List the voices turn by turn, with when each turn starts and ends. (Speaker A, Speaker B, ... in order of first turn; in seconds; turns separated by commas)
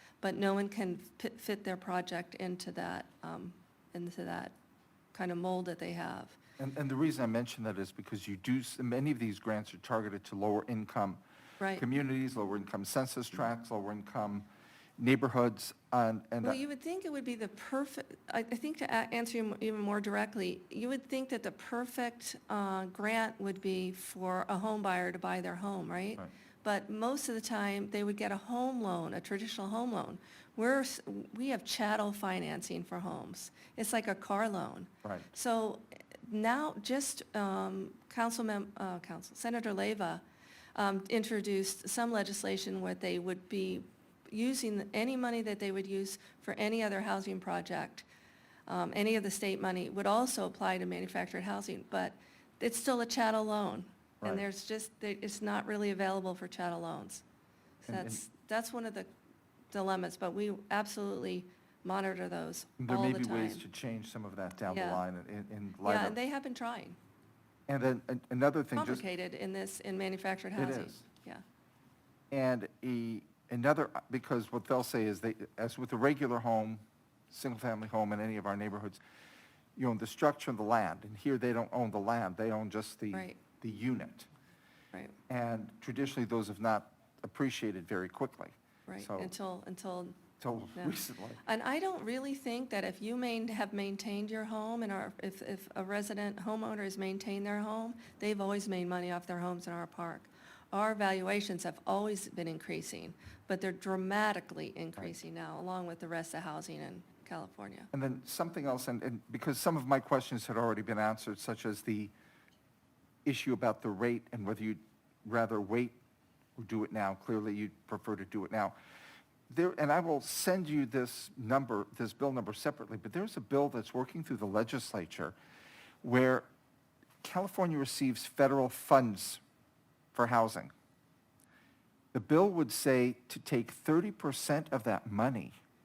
Speaker A: 0.2-4.5, Speaker A: 5.1-6.4, Speaker B: 6.6-11.2, Speaker B: 11.8-16.6, Speaker A: 16.4-40.2, Speaker A: 40.7-48.0, Speaker A: 48.7-57.2, Speaker A: 57.8-59.1, Speaker B: 57.9-58.2, Speaker A: 59.7-63.6, Speaker B: 62.8-66.2, Speaker A: 64.7-65.0, Speaker A: 65.8-67.0, Speaker B: 67.7-69.0, Speaker A: 68.8-71.4, Speaker B: 70.6-71.0, Speaker B: 72.3-79.0, Speaker B: 79.8-84.3, Speaker A: 83.1-83.4, Speaker B: 85.3-89.3, Speaker A: 88.9-90.2, Speaker B: 90.4-91.4, Speaker A: 90.8-107.9, Speaker B: 107.9-112.1, Speaker B: 113.2-116.0, Speaker B: 116.5-118.7, Speaker B: 119.5-125.3, Speaker B: 126.0-126.5, Speaker B: 127.2-129.4, Speaker B: 130.1-130.7, Speaker B: 132.1-135.5